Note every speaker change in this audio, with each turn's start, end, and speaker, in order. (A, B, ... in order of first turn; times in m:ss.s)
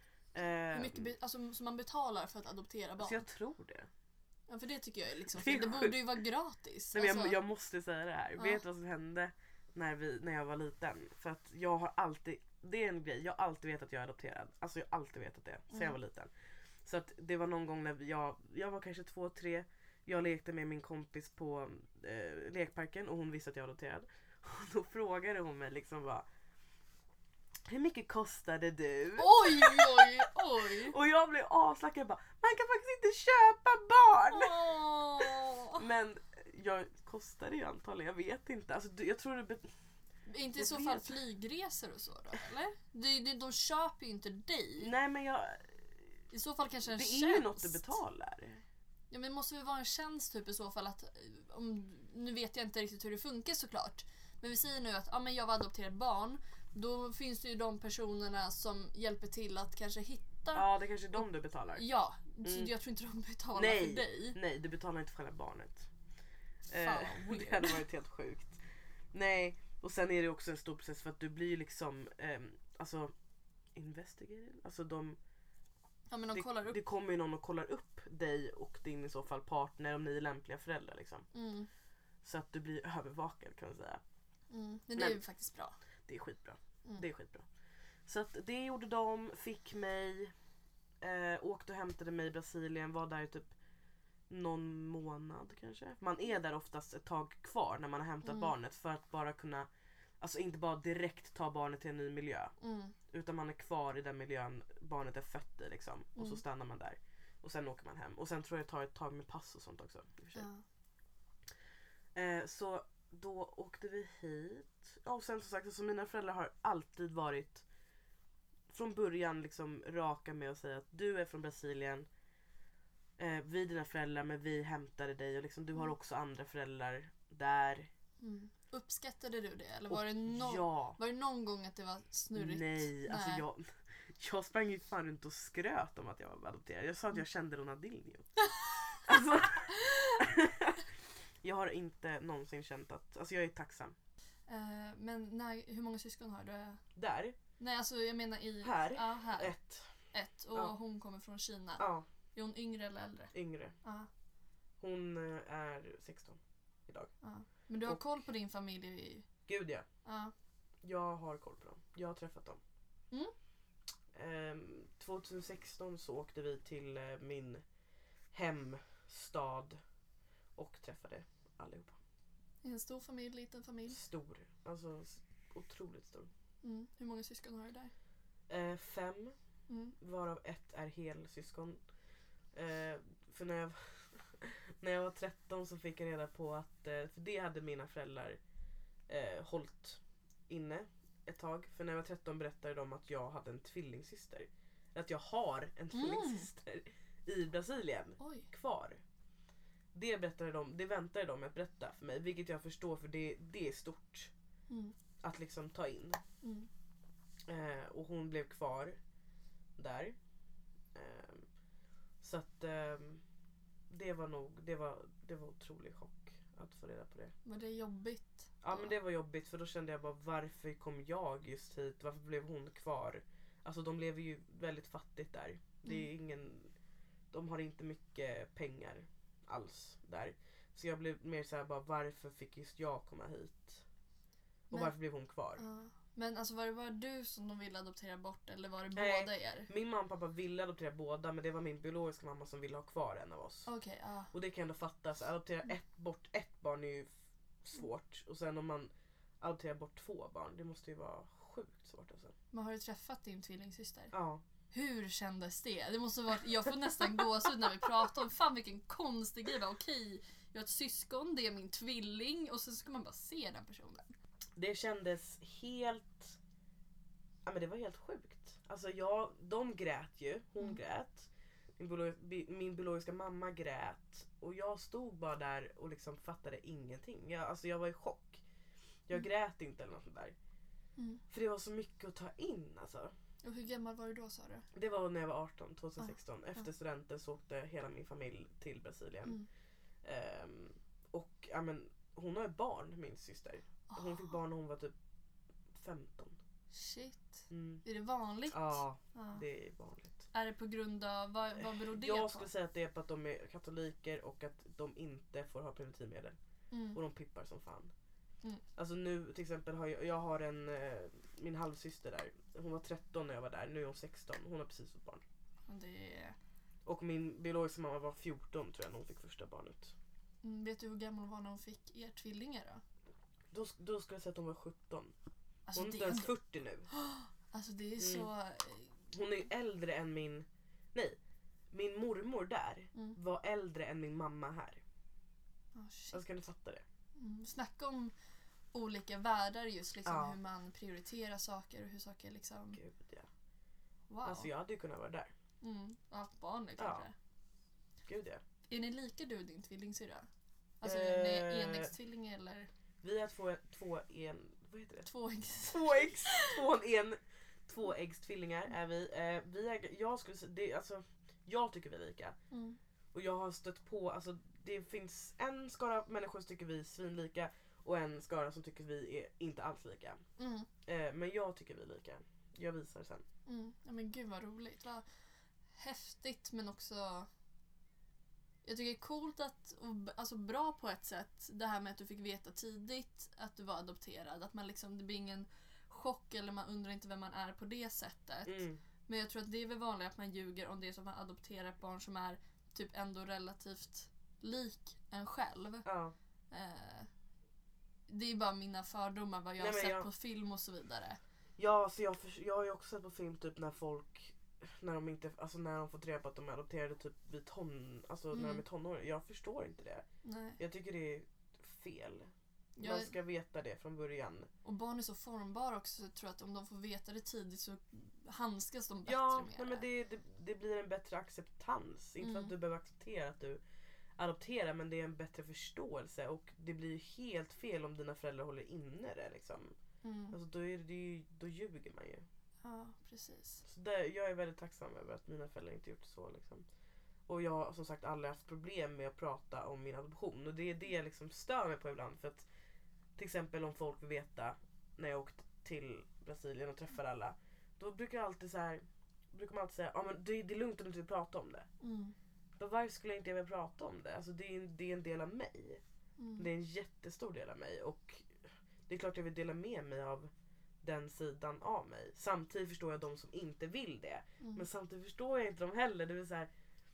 0:00.3-0:01.1 A
0:00.7-0:03.3 B
0:03.0-0:03.9 A
0:04.5-0:07.4 B
0:05.3-0:06.2 A
0:06.9-0:16.3 A
0:08.4-0:08.6 B
0:15.7-0:16.0 B
0:16.8-0:26.2 A
0:27.7-0:39.7 A
0:29.2-0:31.0 B
0:34.3-0:35.8 B
0:40.3-0:44.9 B
0:40.6-0:41.2 A
0:44.8-0:45.9 A
0:46.3-0:48.0 B
0:46.9-0:48.6 A
0:49.1-1:04.4 B
1:00.5-1:01.8 A
1:02.4-1:02.7 A
1:03.6-1:05.9 A
1:06.7-1:13.1 A
1:06.7-1:07.8 B
1:13.8-1:15.2 A
1:16.1-1:16.8 B
1:16.3-1:21.3 A
1:21.3-1:21.7 B
1:22.2-1:24.0 A
1:24.5-1:25.8 B
1:26.1-1:27.5 A
1:28.1-1:30.3 A
1:31.0-1:33.5 A
1:34.3-1:39.7 A
1:38.2-1:38.5 B
1:40.2-1:42.5 A
1:42.6-1:43.0 B
1:43.1-1:50.5 A
1:46.2-1:46.4 B
1:50.4-1:50.6 B
1:52.2-1:57.6 A
1:58.7-2:02.1 A
2:03.2-2:07.9 A
2:08.2-2:13.4 B
2:09.9-2:11.0 A
2:12.4-2:18.3 A
2:19.0-2:20.9 A
2:19.8-2:20.2 B
2:21.4-2:24.0 A
2:24.5-2:26.8 B
2:27.0-2:27.4 A
2:27.6-2:29.6 B
2:28.6-2:29.9 A
2:30.1-2:34.1 B
2:31.8-2:32.1 A
2:33.3-2:33.8 A
2:34.8-2:37.1 A
2:37.2-2:39.3 B
2:39.5-2:39.8 A
2:40.0-2:40.3 B
2:40.8-2:42.6 A
2:44.1-2:47.6 A
2:48.3-2:49.8 A
2:50.6-2:52.0 A
2:52.6-2:54.0 B
2:53.9-2:56.3 A
2:56.6-2:57.9 B
2:58.5-2:59.4 A
2:59.7-3:00.0 B
3:00.0-3:01.8 A
3:02.5-3:08.4 A
3:09.1-3:19.0 A
3:15.9-3:16.5 B
3:18.2-3:18.5 B
3:19.9-3:24.3 A
3:24.7-3:25.0 B
3:25.2-3:26.2 A
3:26.4-3:26.7 B
3:27.5-3:29.0 A
3:29.8-3:30.2 A
3:30.9-3:31.5 A
3:32.2-3:33.2 A
3:33.9-3:37.3 A
3:37.4-3:38.9 B
3:38.6-3:46.7 A
3:47.3-3:53.8 A
3:54.7-3:55.6 A
3:55.6-3:59.7 B
3:59.0-4:03.7 A
4:03.7-4:04.3 B
4:04.3-4:07.1 A
4:07.6-4:12.3 A
4:12.5-4:14.1 B
4:14.1-4:14.4 A
4:14.7-4:24.1 B
4:24.6-4:26.4 A
4:27.4-4:38.4 A
4:39.1-4:40.4 A
4:41.0-4:41.2 B
4:41.3-4:43.1 A
4:43.4-4:44.7 B
4:44.7-4:49.4 A
4:50.0-4:55.0 A
4:53.9-4:54.3 B
4:55.7-4:56.4 A
4:56.7-4:59.4 B
4:57.5-4:57.8 A
4:58.5-5:00.3 A
5:00.3-5:02.5 B
5:01.6-5:06.4 A
5:06.7-5:07.0 B
5:06.9-5:07.9 A
5:08.8-5:15.2 A
5:15.7-5:16.4 B
5:16.9-5:19.9 A
5:20.4-5:22.8 B
5:23.5-5:25.1 A
5:25.7-5:26.3 B
5:25.8-5:26.9 A
5:26.9-5:29.0 B
5:28.0-5:28.3 A
5:29.1-5:31.2 A
5:31.7-5:34.8 A
5:35.8-5:36.2 B
5:36.1-5:36.8 A
5:37.2-5:38.1 B
5:38.7-5:42.8 B
5:40.1-5:40.4 A
5:42.7-5:43.3 A
5:44.1-5:44.5 B
5:44.2-5:45.3 A
5:45.6-5:47.2 B
5:46.8-5:47.1 A
5:48.1-5:48.4 A
5:48.7-5:50.3 B
5:50.8-5:52.7 B
5:50.8-5:51.9 A
5:53.0-5:55.1 A
5:55.0-5:56.6 B
5:55.7-6:02.4 A
6:02.5-6:02.8 B
6:03.1-6:10.2 A
6:10.4-6:10.7 B
6:10.9-6:13.2 A
6:13.5-6:15.0 B
6:15.7-6:17.3 B
6:18.6-6:35.9 B
6:28.4-6:28.8 A
6:35.8-6:36.2 A
6:36.5-6:37.1 B
6:38.1-6:41.2 B
6:39.6-6:40.1 A
6:41.6-6:50.0 A
6:48.3-6:48.6 B
6:50.2-6:50.6 B
6:50.6-6:54.5 A
6:52.8-6:53.1 B
6:54.6-6:59.9 B
6:59.1-7:03.6 A
7:02.2-7:02.5 B
7:04.2-7:09.8 A
7:10.0-7:10.4 B
7:10.3-7:12.2 A
7:12.6-7:13.6 B
7:13.7-7:16.7 A
7:17.3-7:22.5 A
7:23.2-7:31.7 A
7:31.8-7:32.2 B
7:32.6-7:35.8 A
7:36.2-7:36.5 B
7:36.4-7:40.3 A
7:40.8-7:46.5 A